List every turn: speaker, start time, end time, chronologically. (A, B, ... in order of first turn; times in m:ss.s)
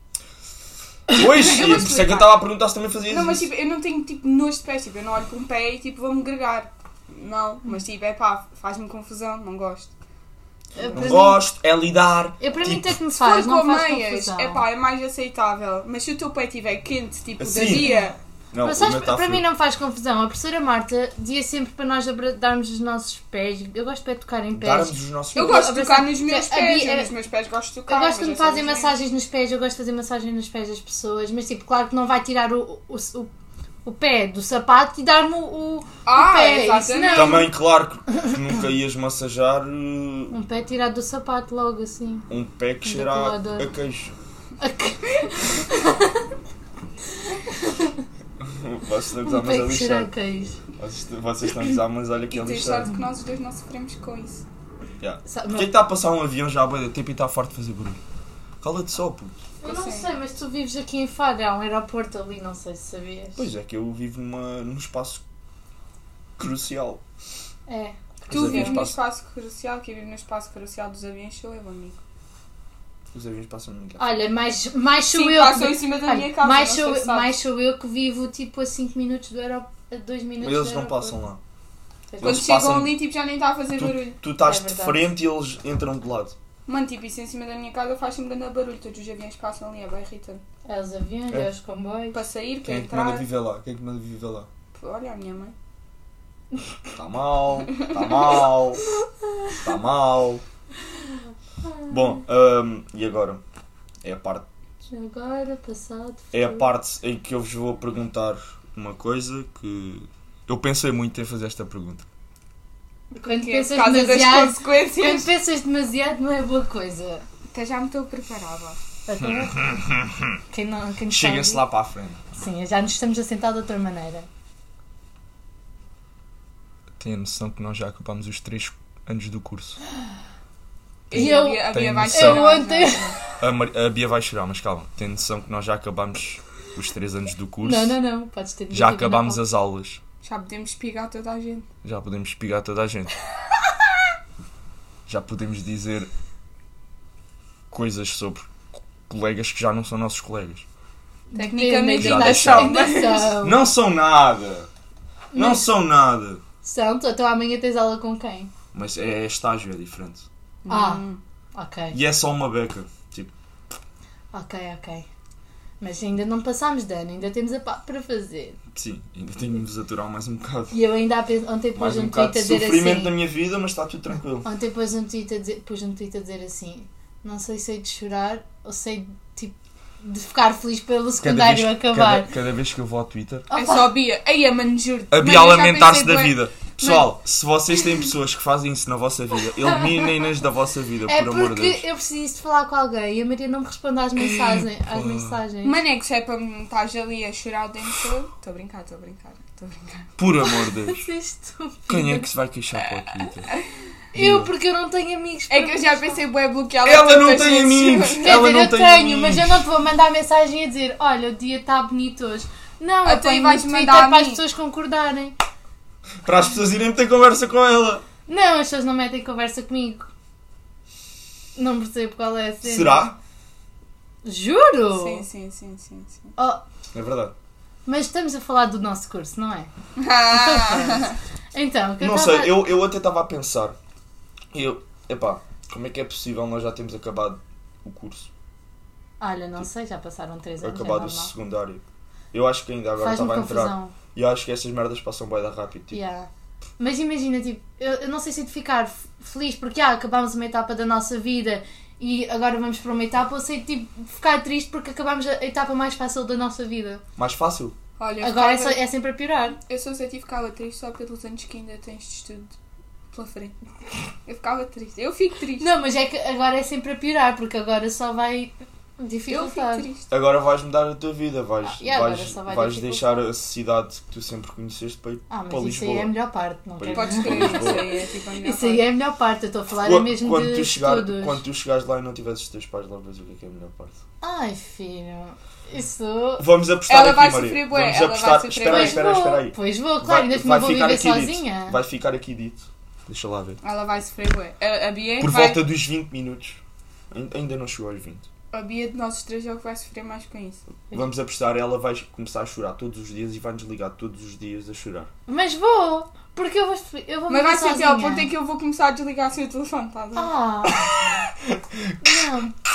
0:01.1-0:03.5 A
0:01.4-0:02.3 B
0:03.1-0:09.9 B
0:10.8-0:11.4 C
0:10.9-0:13.0 A
0:12.4-0:14.6 C
0:13.2-0:18.2 B
0:17.4-0:17.9 A
0:18.5-0:19.4 A
0:18.6-0:27.1 C
0:24.5-0:25.7 A
0:25.3-0:29.0 B
0:27.9-0:33.3 C
0:33.8-0:37.5 C
0:36.0-0:37.5 B
0:37.1-0:40.3 A
0:40.3-0:42.3 C
0:42.3-0:44.1 A
0:42.8-0:43.7 C
0:44.6-0:46.3 C
0:47.5-0:48.0 C
0:48.4-0:50.1 A
0:49.2-0:50.6 C
0:50.8-0:52.9 A
0:52.3-0:54.4 B
0:55.0-0:58.0 A
0:55.2-0:55.7 C
0:58.6-0:59.4 A
0:59.6-1:03.4 C
0:59.6-1:00.1 B
1:03.4-1:05.2 A
1:06.4-1:07.0 A
1:07.7-1:08.8 C
1:08.3-1:09.0 A
1:08.3-1:12.0 B
1:13.1-1:14.2 A
1:14.0-1:21.2 C
1:15.1-1:17.3 B
1:20.4-1:21.4 A
1:22.1-1:22.4 C
1:22.2-1:23.0 A
1:22.2-1:24.2 B
1:23.8-1:26.4 A
1:24.4-1:25.1 C
1:26.7-1:30.4 B
1:30.6-1:32.2 C
1:32.1-1:33.2 B
1:32.6-1:34.5 A
1:34.7-1:35.5 B
1:36.9-1:38.8 A
1:39.6-1:40.4 A
1:41.6-1:41.9 C
1:41.9-1:43.4 A
1:44.0-1:44.4 A
1:44.9-1:46.6 C
1:46.3-1:52.0 A
1:53.1-1:55.3 B
1:53.2-1:57.2 C
1:57.5-1:58.8 B
1:59.1-1:59.8 C
1:59.2-2:00.4 A
2:00.5-2:01.6 C
2:01.1-2:02.3 A
2:02.3-2:04.3 C
2:07.0-2:09.8 A
2:11.1-2:13.2 B
2:11.1-2:12.6 A
2:11.1-2:13.1 C
2:13.4-2:18.0 A
2:17.6-2:19.4 C
2:18.7-2:20.0 A
2:20.2-2:21.7 B
2:21.8-2:23.1 A
2:25.1-2:26.1 A
2:27.7-2:28.5 A
2:29.1-2:30.6 A
2:31.3-2:33.6 C
2:31.4-2:33.3 B
2:32.0-2:34.7 A
2:35.3-2:35.7 C
2:35.3-2:36.4 A
2:36.6-2:38.5 C
2:38.7-2:40.2 A
2:40.6-2:41.2 B
2:40.7-2:42.0 C
2:41.9-2:43.3 A
2:44.3-2:45.1 C
2:45.8-2:48.6 C
2:48.7-2:50.8 A
2:50.7-2:53.2 C
2:51.8-2:54.5 A
2:54.4-3:02.3 C
3:01.2-3:03.5 A
3:03.5-3:03.9 C
3:03.5-3:06.9 B
3:05.1-3:11.8 A
3:11.1-3:15.8 C
3:14.2-3:15.4 A
3:15.6-3:20.1 B
3:20.2-3:21.1 A
3:20.4-3:22.3 C
3:21.9-3:23.5 A
3:24.1-3:24.5 A
3:24.1-3:26.2 C
3:25.5-3:28.4 B
3:26.8-3:29.6 A
3:28.2-3:35.4 C
3:33.0-3:34.4 B
3:36.2-3:38.0 A
3:38.3-3:40.1 C
3:41.6-3:43.1 C
3:42.6-3:43.2 A
3:44.2-3:45.2 C
3:44.9-3:46.3 B
3:46.4-3:46.6 C
3:46.9-3:47.3 A
3:47.8-3:49.7 C
3:50.0-3:51.2 B
3:50.3-3:52.5 C
3:52.0-3:53.8 A
3:54.5-3:58.3 A
3:59.2-4:01.3 C
4:00.6-4:01.8 A
4:02.3-4:06.0 A
4:03.0-4:03.9 C
4:05.9-4:17.0 C
4:17.2-4:17.8 A
4:18.0-4:18.8 B
4:18.2-4:19.6 C
4:19.7-4:22.5 B
4:23.1-4:23.5 B
4:24.2-4:25.7 B
4:25.6-4:29.9 C
4:29.3-4:30.1 B
4:30.1-4:36.1 A
4:31.6-4:33.1 C
4:35.3-4:37.8 C
4:36.8-4:37.9 A
4:36.9-4:38.8 B
4:38.4-4:41.4 C
4:39.8-4:44.0 A
4:44.2-4:46.4 C
4:46.4-4:53.6 A
4:46.9-4:49.0 B
4:48.7-4:51.8 C
4:53.6-4:55.6 B
4:55.2-4:58.3 A
4:58.5-5:00.6 B
5:00.9-5:05.1 A
5:05.3-5:08.3 C
5:07.3-5:10.3 B
5:10.2-5:11.1 C
5:10.7-5:12.2 A
5:12.0-5:12.5 C